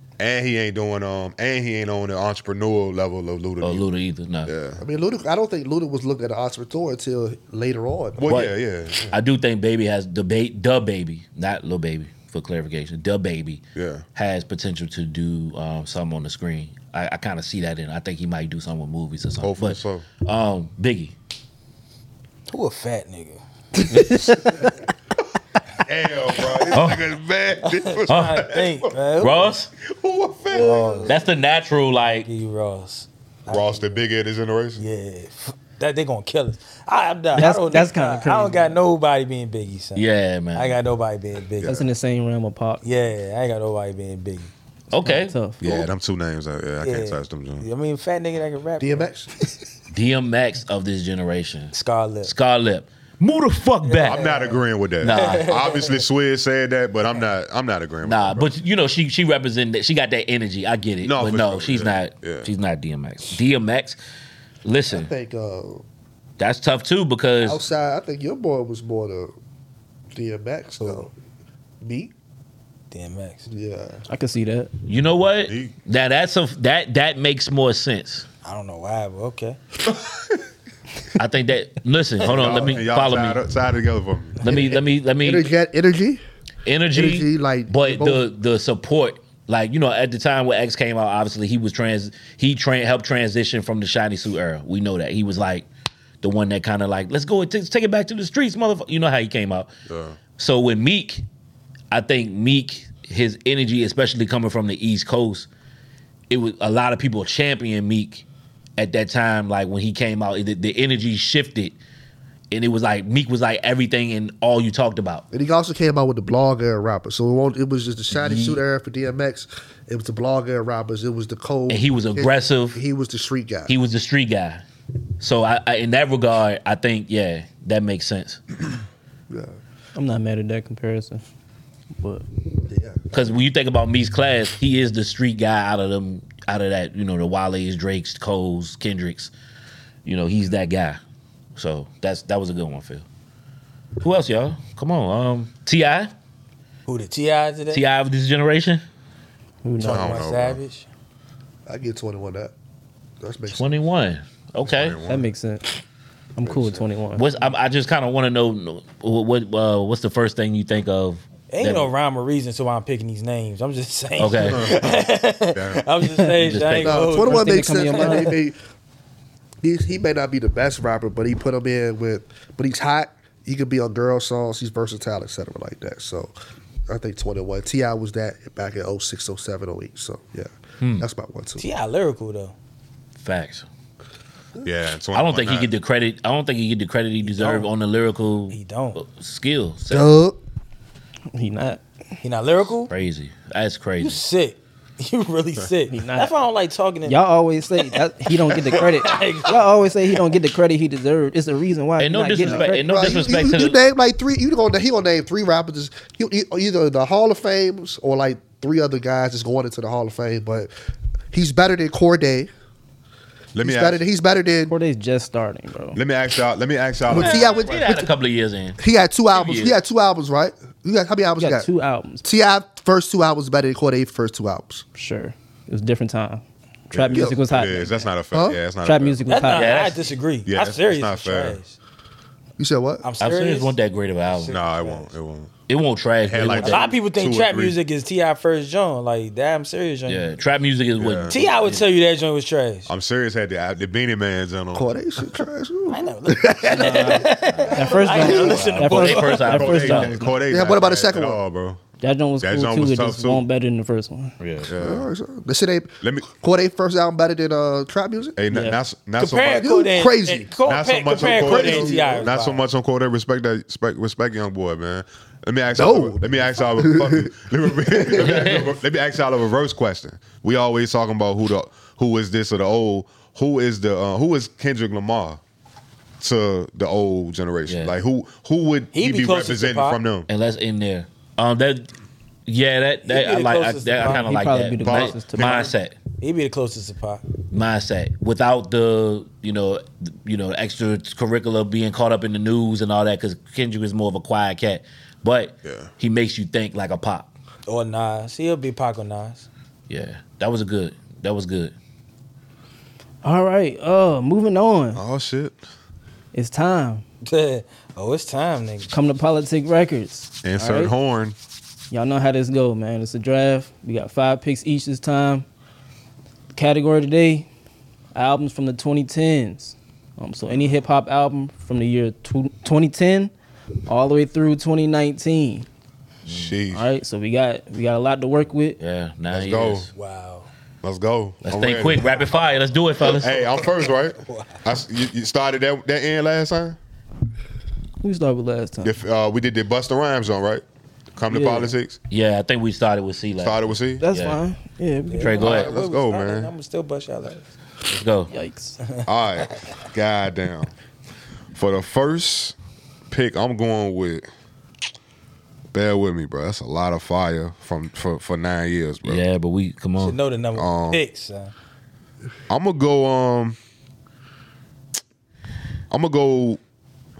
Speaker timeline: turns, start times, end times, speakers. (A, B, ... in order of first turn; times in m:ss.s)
0:00.2-0:03.9 A
0:03.6-0:04.5 B
0:04.4-0:04.8 A
0:04.8-0:08.3 C
0:08.2-0:09.1 A
0:08.3-0:08.5 B
0:09.1-0:13.6 B
0:13.7-0:14.0 A
0:14.1-0:21.1 B
0:19.4-0:20.0 A
0:22.5-0:24.7 D
0:23.9-0:24.4 E
0:25.8-0:29.0 A
0:26.7-0:27.0 B
0:27.7-0:29.5 D
0:28.1-0:28.5 B
0:29.2-0:29.7 B
0:29.8-0:31.1 A
0:30.5-0:31.2 D
0:31.0-0:32.3 B
0:32.2-0:34.0 D
0:33.5-0:34.8 A
0:34.8-0:41.8 D
0:37.4-0:38.8 E
0:39.9-0:40.8 B
0:41.6-0:41.9 A
0:41.6-0:42.8 E
0:42.8-0:44.5 D
0:44.9-0:45.4 B
0:45.0-0:45.8 E
0:45.6-0:47.7 A
0:46.8-0:49.1 D
0:48.8-0:49.3 C
0:49.9-0:54.2 B
0:51.7-0:52.3 D
0:53.8-0:56.0 D
0:54.0-0:58.5 A
0:55.0-0:55.5 B
0:58.0-1:04.0 B
1:01.0-1:02.5 A
1:04.6-1:05.1 B
1:04.9-1:05.8 C
1:06.4-1:07.6 B
1:07.4-1:09.3 C
1:10.1-1:11.1 C
1:11.8-1:12.1 C
1:12.9-1:13.4 D
1:13.5-1:14.0 C
1:14.1-1:14.7 E
1:14.9-1:18.2 B
1:15.5-1:15.7 A
1:18.4-1:19.6 D
1:21.2-1:23.4 B
1:22.2-1:24.4 A
1:24.4-1:25.5 B
1:24.5-1:26.2 C
1:26.6-1:35.7 B
1:26.9-1:28.2 C
1:36.2-1:39.7 B
1:39.9-1:40.2 A
1:40.4-1:41.2 B
1:41.9-1:45.5 B
1:46.3-1:48.2 B
1:48.8-1:51.8 B
1:52.5-1:55.2 B
1:55.3-2:03.7 C
1:58.1-1:58.6 B
2:01.7-2:02.8 B
2:03.7-2:04.6 B
2:05.2-2:08.4 B
2:09.3-2:09.6 C
2:09.9-2:11.2 E
2:12.0-2:12.2 E
2:12.7-2:13.1 C
2:13.1-2:19.3 B
2:20.0-2:21.0 B
2:21.6-2:23.0 B
2:24.0-2:26.1 B
2:26.8-2:27.8 D
2:27.7-2:28.8 B
2:29.6-2:30.2 E
2:29.8-2:30.9 D
2:29.8-2:30.6 A
2:31.7-2:32.5 C
2:33.2-2:33.6 C
2:33.5-2:35.0 B
2:34.6-2:35.3 A
2:35.0-2:35.7 E
2:36.4-2:37.2 E
2:36.4-2:36.8 A
2:37.1-2:41.9 B
2:41.5-2:48.3 D
2:44.2-2:44.8 B
2:44.5-2:45.8 A
2:46.0-2:46.3 E
2:46.4-2:47.1 B
2:46.8-2:48.6 C
2:47.2-2:48.4 E
2:49.6-2:56.3 C
2:56.9-3:01.6 C
3:00.8-3:01.1 B
3:01.6-3:02.5 D
3:03.2-3:03.6 B
3:04.6-3:05.7 A
3:05.1-3:10.1 B
3:07.2-3:07.7 D
3:08.5-3:09.0 D
3:09.9-3:10.4 C
3:11.3-3:11.8 E
3:12.2-3:12.9 D
3:12.9-3:14.2 B
3:14.0-3:17.2 D
3:15.9-3:16.3 E
3:17.0-3:23.3 E
3:18.5-3:19.6 D
3:22.0-3:23.8 B
3:22.4-3:30.7 C
3:31.3-3:32.5 C
3:33.5-3:34.0 A
3:33.6-3:34.7 C
3:34.7-3:36.0 E
3:35.9-3:37.6 A
3:37.1-3:38.1 C
3:37.1-3:39.8 B
3:38.8-3:41.7 C
3:41.4-3:42.2 E
3:42.2-3:44.8 C
3:45.0-3:48.0 E
3:46.9-3:49.2 A
3:48.3-3:48.6 C
3:48.8-3:49.8 E
3:49.2-3:51.8 D
3:49.4-3:50.0 B
3:50.4-3:51.6 A
3:52.6-3:53.0 C
3:53.0-3:53.7 D
3:53.2-3:54.6 B
3:54.3-3:55.1 D
3:54.5-3:55.5 A
3:55.7-3:56.9 B
3:56.2-3:57.8 A
3:56.5-4:00.3 D
4:00.1-4:01.8 B
4:01.0-4:01.3 A
4:01.3-4:02.9 D
4:02.9-4:04.9 A
4:04.7-4:07.3 C
4:05.9-4:09.6 D
4:06.7-4:10.4 E
4:07.4-4:10.2 B
4:07.9-4:08.5 C
4:09.4-4:11.8 A
4:10.5-4:11.4 C
4:12.0-4:14.3 E
4:12.4-4:13.4 A
4:14.4-4:14.7 B
4:14.6-4:15.1 A
4:14.8-4:18.4 C
4:16.0-4:16.3 A
4:18.4-4:19.7 A
4:18.5-4:18.8 E
4:19.2-4:22.6 D
4:19.6-4:22.3 C
4:20.6-4:35.4 A
4:25.8-4:28.5 C
4:28.2-4:28.7 B
4:36.2-4:40.3 A
4:37.7-4:38.0 B
4:38.9-4:40.0 D
4:40.3-4:41.9 B
4:42.5-4:45.9 B
4:43.0-4:44.3 D
4:44.0-4:45.7 E
4:44.8-4:45.7 A
4:46.2-4:47.2 D
4:47.5-4:57.3 B
4:55.6-4:55.9 A
4:57.6-4:59.5 D
4:59.9-5:01.7 B
5:03.2-5:05.0 E
5:04.9-5:05.6 A
5:06.3-5:07.0 E
5:07.2-5:08.9 D
5:08.9-5:10.9 E
5:10.4-5:11.3 A
5:11.9-5:15.4 E
5:16.5-5:17.5 E
5:18.1-5:23.3 E
5:23.9-5:25.7 E
5:26.2-5:26.6 B
5:26.3-5:26.9 A
5:26.7-5:28.8 E
5:28.8-5:29.9 B
5:29.3-5:29.9 A
5:29.9-5:30.5 D
5:30.8-5:32.2 A
5:31.4-5:33.4 B
5:33.1-5:36.8 A
5:34.2-5:34.6 D
5:38.0-5:39.0 E
5:38.8-5:40.6 A
5:41.1-5:42.0 A
5:41.3-5:41.7 E
5:42.1-5:44.4 B
5:43.4-5:44.0 A
5:44.0-5:45.7 E
5:45.1-5:47.5 D
5:45.2-5:45.8 B
5:45.5-5:46.5 A
5:47.9-5:48.3 B
5:48.3-5:48.8 E
5:48.8-5:49.1 D
5:49.0-5:50.7 A
5:51.5-5:52.5 A
5:53.1-5:54.3 A
5:55.7-5:59.2 A
5:59.0-6:00.2 B
6:00.0-6:01.5 D
6:00.5-6:01.0 A
6:02.5-6:03.6 A
6:05.9-6:06.6 A